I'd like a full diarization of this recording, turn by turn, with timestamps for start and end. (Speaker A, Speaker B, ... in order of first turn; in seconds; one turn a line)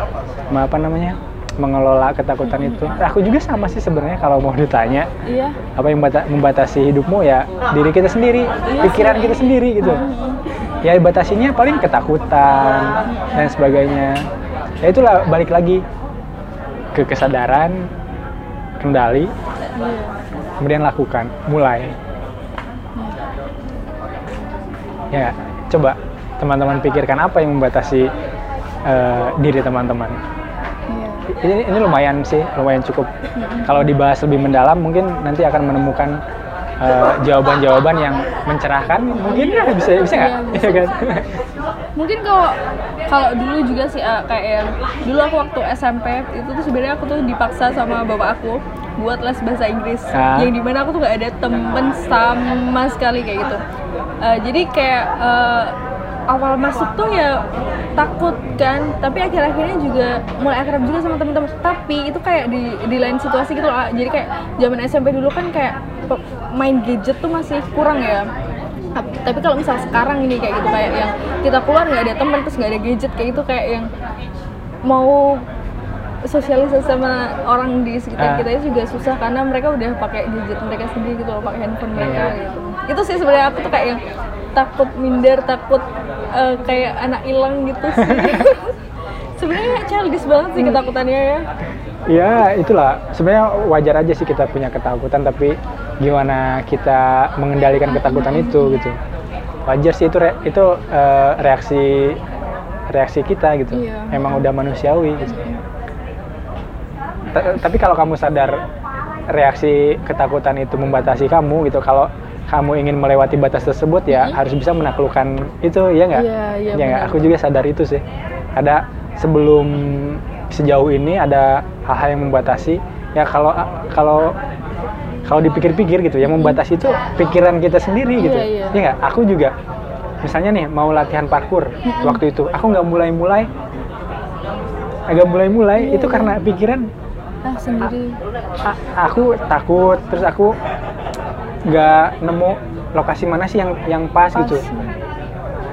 Speaker A: 0.5-5.1
Speaker B: 2.4-2.9
Speaker B: 5.2-5.6
Speaker A: 5.8-10.0
Speaker B: 8.7-10.4
Speaker A: 10.8-14.2
Speaker B: 13.1-13.5
Speaker A: 14.8-15.8
Speaker A: 16.9-17.9
Speaker A: 18.8-19.3
Speaker B: 19.7-20.1
Speaker A: 20.6-21.9
Speaker A: 25.1-28.1
Speaker A: 28.9-30.2
Speaker B: 30.9-31.3
Speaker A: 31.3-33.1
Speaker B: 33.3-33.9
Speaker A: 33.6-36.2
Speaker A: 36.8-41.3
Speaker B: 39.2-40.9
Speaker B: 42.0-42.6
Speaker B: 43.1-53.6
Speaker A: 50.1-50.5
Speaker B: 54.2-55.7
Speaker B: 56.3-57.4
Speaker B: 58.0-68.3
Speaker B: 69.0-73.9
Speaker B: 74.8-75.4
Speaker B: 76.2-84.0
Speaker A: 78.2-78.5
Speaker A: 82.0-82.3
Speaker B: 84.5-88.7
Speaker A: 88.0-88.5
Speaker B: 89.4-91.4
Speaker A: 92.1-99.0
Speaker B: 97.9-98.8
Speaker A: 99.7-102.2
Speaker A: 102.9-105.4
Speaker B: 103.7-104.5
Speaker B: 105.2-105.6
Speaker A: 107.3-108.6
Speaker A: 109.3-118.0
Speaker B: 114.1-114.4
Speaker B: 116.1-117.3
Speaker A: 118.5-124.3
Speaker A: 125.2-129.5
Speaker B: 126.2-126.6
Speaker B: 128.2-128.8
Speaker A: 130.2-133.5
Speaker B: 131.8-132.2
Speaker A: 135.1-136.9
Speaker B: 135.7-136.4
Speaker B: 137.4-138.2
Speaker A: 138.6-140.6
Speaker A: 141.7-144.6
Speaker B: 144.3-145.0